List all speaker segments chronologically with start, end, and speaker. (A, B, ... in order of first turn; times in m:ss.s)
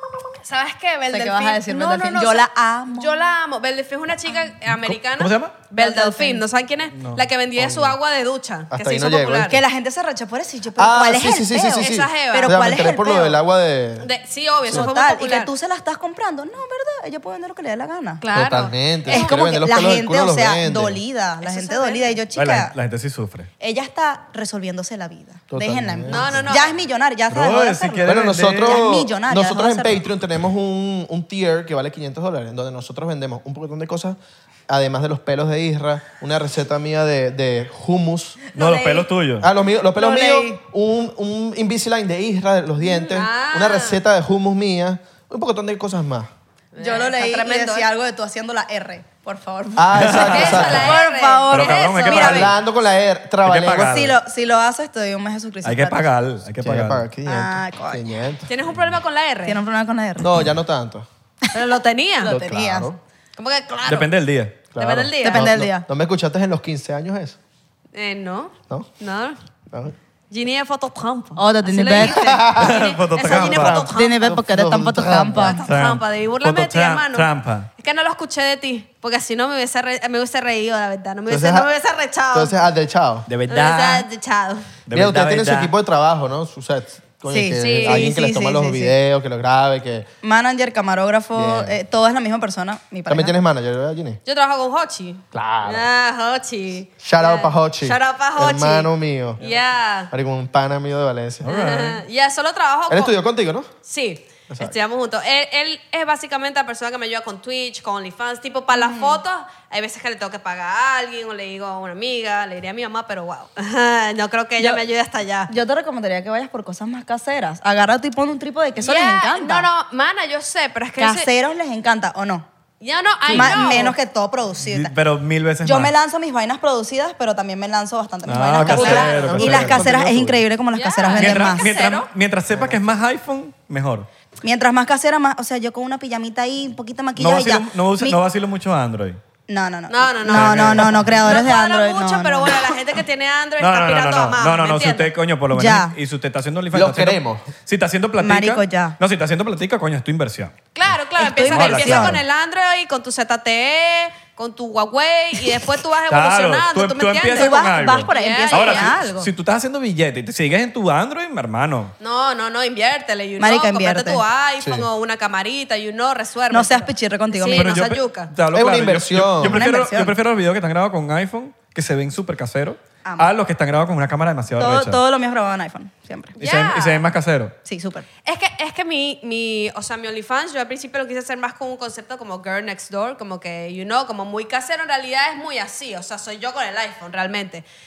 0:00.4-0:09.6 A
0:01.1-0:03.2 B
0:04.8-0:05.6 C
0:05.8-0:06.4 B
0:06.9-0:08.0 C
0:08.7-0:09.6 D
0:09.5-0:13.4 B
0:10.8-0:14.1 D
0:11.7-0:12.7 A
0:14.0-0:15.5 A
0:14.7-0:18.2 B
0:18.2-0:19.3 A
0:18.3-0:21.0 D
0:19.0-0:22.7 B
0:21.4-0:22.2 A
0:22.3-0:23.5 C
0:23.6-0:30.0 B
0:25.5-0:26.6 D
0:26.1-0:26.8 A
0:27.3-0:28.8 C
0:28.0-0:34.2 D
0:34.7-0:38.4 D
0:38.5-0:39.5 C
0:38.6-0:38.9 A
0:38.6-0:39.0 B
0:39.4-0:46.3 D
0:40.0-0:40.5 B
0:42.8-0:44.0 A
0:46.7-0:47.9 A
0:46.8-0:52.5 B
0:49.8-0:51.0 D
0:50.0-0:51.0 C
0:50.2-0:52.5 A
0:51.5-0:52.5 C
0:52.1-0:54.0 D
0:53.4-0:54.2 C
0:53.8-0:56.1 B
0:55.6-0:57.0 C
0:56.6-0:58.5 D
0:57.3-0:58.1 B
0:58.5-0:59.6 A
0:59.4-1:00.4 B
1:00.2-1:01.1 D
1:01.5-1:02.4 A
1:02.2-1:02.9 B
1:02.2-1:03.0 D
1:03.4-1:04.2 A
1:03.9-1:04.6 C
1:04.7-1:07.4 D
1:04.8-1:05.5 A
1:05.2-1:05.9 B
1:07.9-1:09.4 A
1:10.3-1:14.4 A
1:11.4-1:12.4 B
1:12.0-1:12.8 D
1:12.6-1:13.9 C
1:13.3-1:15.6 D
1:13.9-1:15.6 B
1:15.4-1:22.6 A
1:15.6-1:17.7 C
1:21.3-1:21.7 D
1:22.3-1:23.3 D
1:23.3-1:24.1 C
1:23.5-1:24.7 A
1:24.9-1:25.7 C
1:24.9-1:30.1 D
1:27.3-1:29.0 B
1:27.6-1:28.2 A
1:30.2-1:33.3 B
1:31.3-1:31.8 D
1:33.1-1:34.2 D
1:34.3-1:40.1 A
1:35.3-1:35.9 D
1:37.0-1:39.5 D
1:40.1-1:41.4 D
1:41.4-1:42.0 C
1:41.5-1:43.2 A
1:42.9-1:43.7 D
1:43.8-1:55.5 A
1:44.5-1:44.8 D
1:48.7-1:49.2 B
1:54.6-1:54.8 B
1:55.5-1:59.7 B
1:58.8-2:01.3 A
2:01.0-2:02.5 B
2:02.8-2:04.0 A
2:03.3-2:03.6 C
2:03.3-2:04.9 B
2:04.6-2:05.9 C
2:05.6-2:11.7 B
2:08.3-2:10.4 C
2:08.6-2:10.0 D
2:08.6-2:09.7 A
2:10.7-2:12.1 A
2:11.2-2:14.1 C
2:12.5-2:12.8 D
2:14.4-2:18.2 B
2:17.2-2:19.2 C
2:19.5-2:22.8 B
2:19.9-2:25.1 A
2:20.3-2:21.4 C
2:23.6-2:30.6 C
2:25.5-2:26.0 B
2:26.7-2:27.5 D
2:28.2-2:29.0 B
2:30.8-2:39.1 A
2:31.2-2:32.2 B
2:31.4-2:32.2 C
2:36.1-2:41.9 C
2:37.3-2:39.3 B
2:42.0-2:48.3 A
2:43.4-2:44.2 B
2:44.6-2:44.9 D
2:46.5-2:47.9 B
2:47.5-2:55.0 C
2:48.5-2:49.6 D
2:49.4-2:50.2 B
2:53.0-2:53.3 B
2:54.6-2:56.4 B
2:56.4-2:57.1 A
2:56.4-2:57.6 C
2:57.6-2:58.1 B
2:58.2-3:07.6 A